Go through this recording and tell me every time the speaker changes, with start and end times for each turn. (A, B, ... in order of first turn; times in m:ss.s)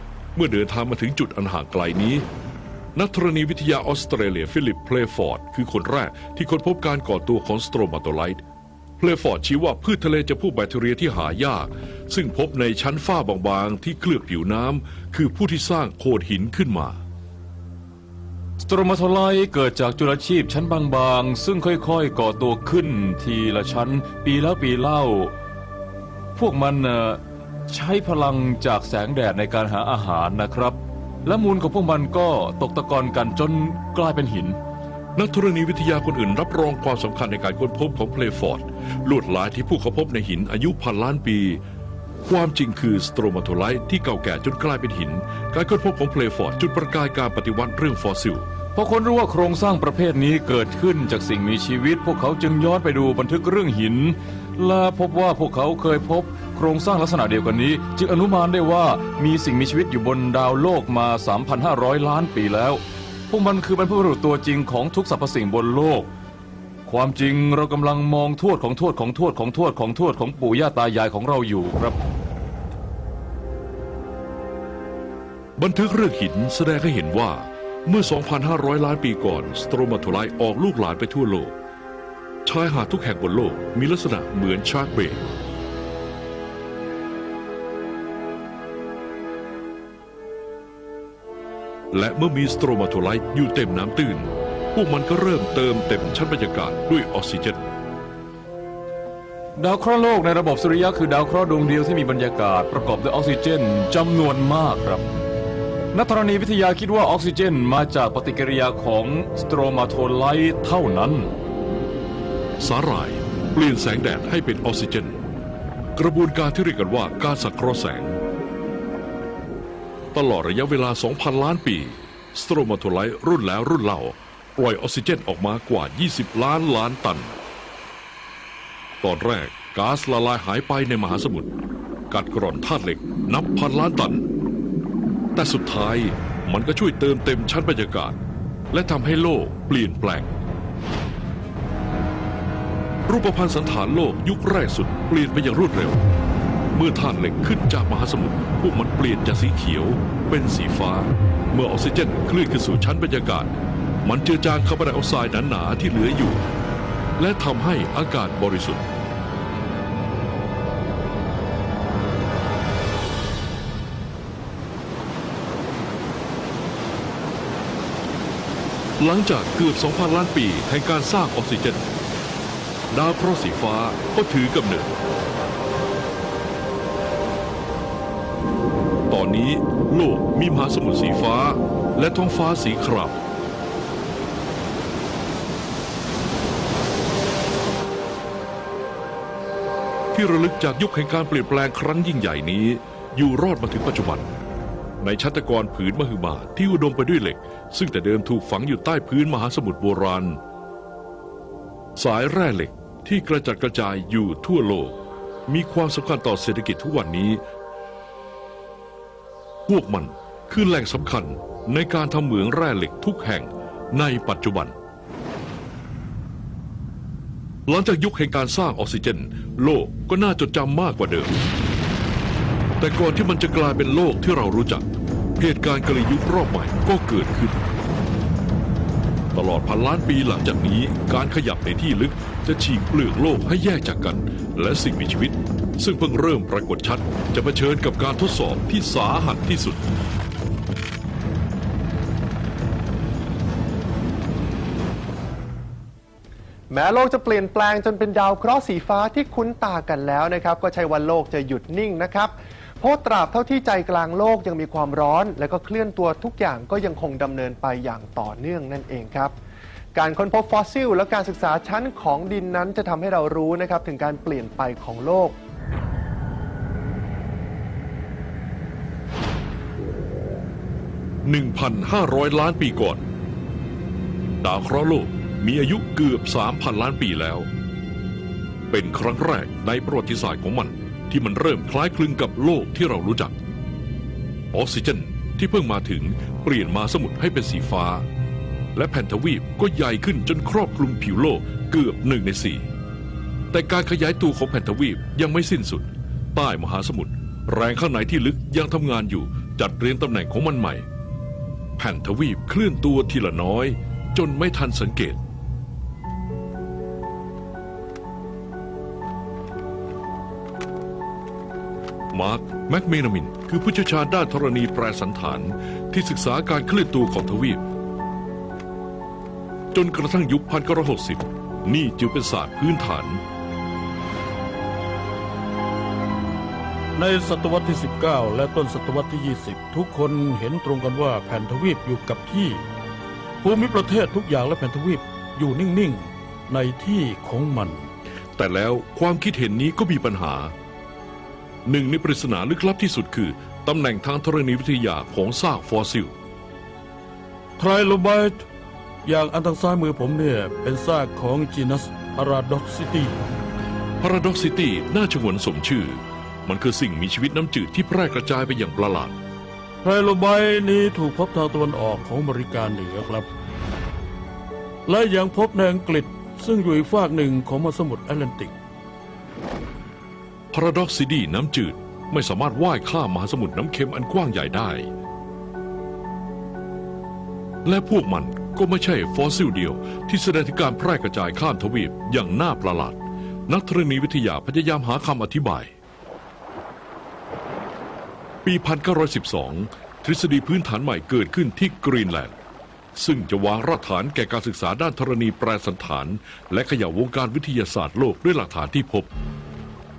0:00.4-0:02.3 A
0:03.0-0:08.4 A
0:09.0-0:17.0 A
0:18.6-0:25.3 B
0:26.4-0:34.6 B
0:35.2-0:41.6 A
0:42.3-0:48.5 A
0:48.8-1:06.1 B
1:06.9-1:12.0 B
1:15.6-1:21.5 A
1:22.4-1:25.2 A
1:31.9-1:37.7 A
1:39.6-1:45.1 B
1:45.9-1:51.3 B
1:52.6-1:55.2 A
1:56.0-1:58.2 A
2:00.1-2:07.4 A
2:09.0-2:11.5 A
2:12.1-2:14.3 A
2:15.4-2:18.2 A
2:18.7-2:20.3 A
2:23.1-2:26.0 A
2:26.7-2:36.4 A
2:37.2-2:38.9 A
2:49.0-2:51.9 A
2:52.9-2:55.0 A
2:59.1-3:03.2 A
3:10.1-3:14.3 A
3:15.0-3:20.4 A
3:22.0-3:25.0 A
3:25.5-3:27.4 A
3:29.7-3:34.8 A
3:37.7-3:41.4 A
3:42.8-3:44.8 A
3:45.4-3:47.6 A
3:49.3-3:59.8 A
4:06.7-4:19.4 C
4:20.0-4:25.4 C
4:31.3-4:33.0 A
4:34.4-4:37.5 A
4:38.7-4:43.4 A
4:44.5-4:48.0 A
4:48.8-4:52.7 A
4:53.5-5:00.9 A
5:01.8-5:05.2 A
5:12.1-5:17.6 A
5:19.7-5:23.2 A
5:27.0-5:32.7 D
5:33.4-5:37.9 D
5:38.4-5:40.5 A
5:41.7-5:46.1 A
5:47.6-5:48.4 D
5:49.1-5:53.3 D
5:54.0-5:59.2 A
5:59.8-6:03.3 D
6:04.9-6:08.6 D
6:10.5-6:14.9 A
6:17.6-6:25.7 A
6:28.4-6:32.3 A
6:33.0-6:39.1 A